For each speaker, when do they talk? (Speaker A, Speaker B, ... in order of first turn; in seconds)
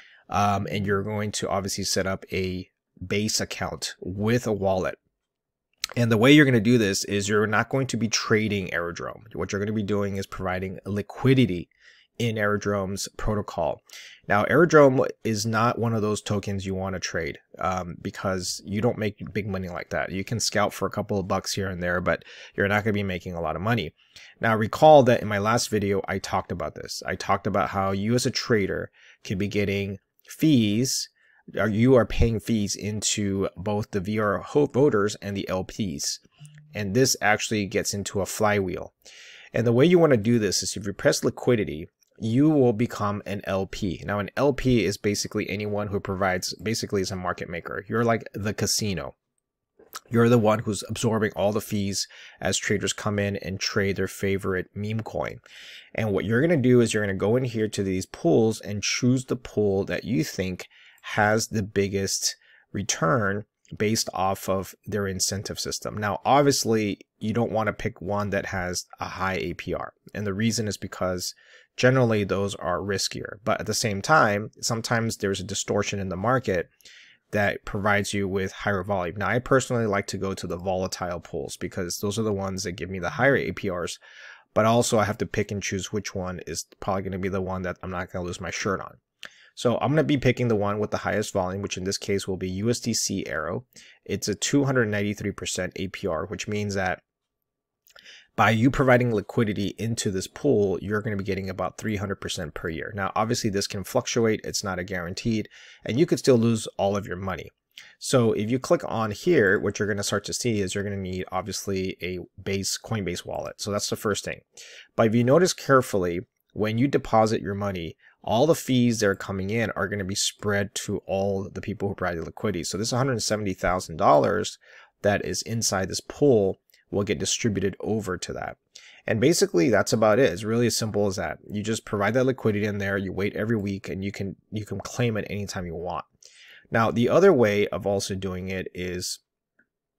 Speaker A: 0.3-5.0, 6.0-36.2, 36.7-38.9, 39.5-49.1, 50.1-55.4, 56.0-76.7, 77.3-84.0, 84.5-89.0, 89.5-97.0, 98.4-114.4, 115.0-136.1, 136.7-139.2